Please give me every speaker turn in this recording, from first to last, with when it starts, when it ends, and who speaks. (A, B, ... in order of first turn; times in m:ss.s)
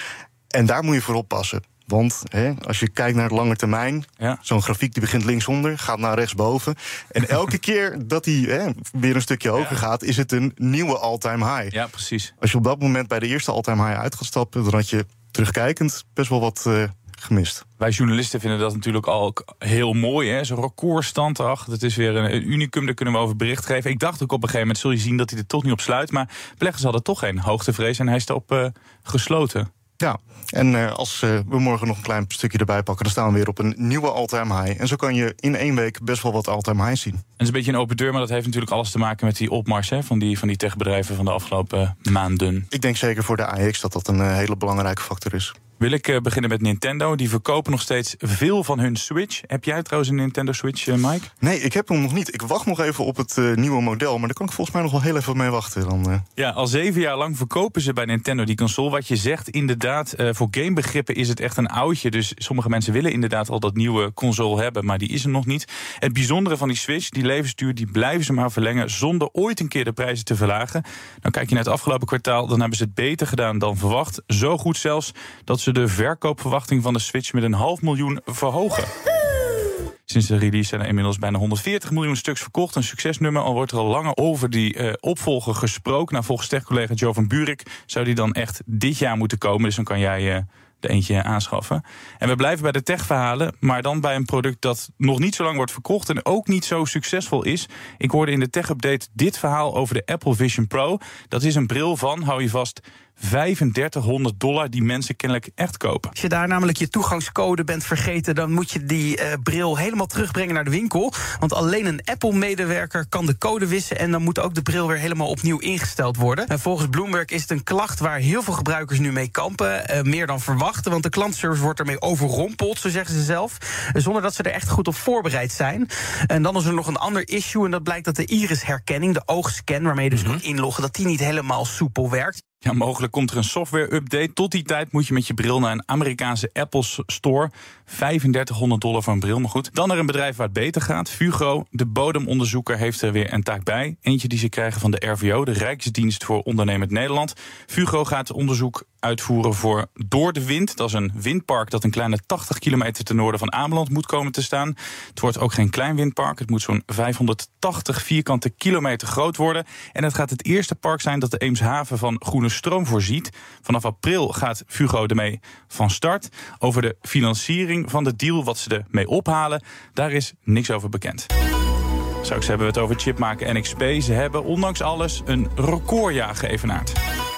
0:00.5-0:11.8 A
0:07.2-0:07.4 B
0:11.7-0:12.3 B
0:12.4-0:17.6 A
0:17.8-0:29.7 B
0:30.0-0:37.2 A
0:37.4-0:42.7 B
0:42.7-0:45.6 A
0:45.8-0:51.3 B
0:51.4-0:56.2 A
0:56.4-1:18.9 B
1:20.1-1:46.1 B
1:46.2-2:12.4 C
2:12.6-2:51.3 B
2:52.2-2:57.0 B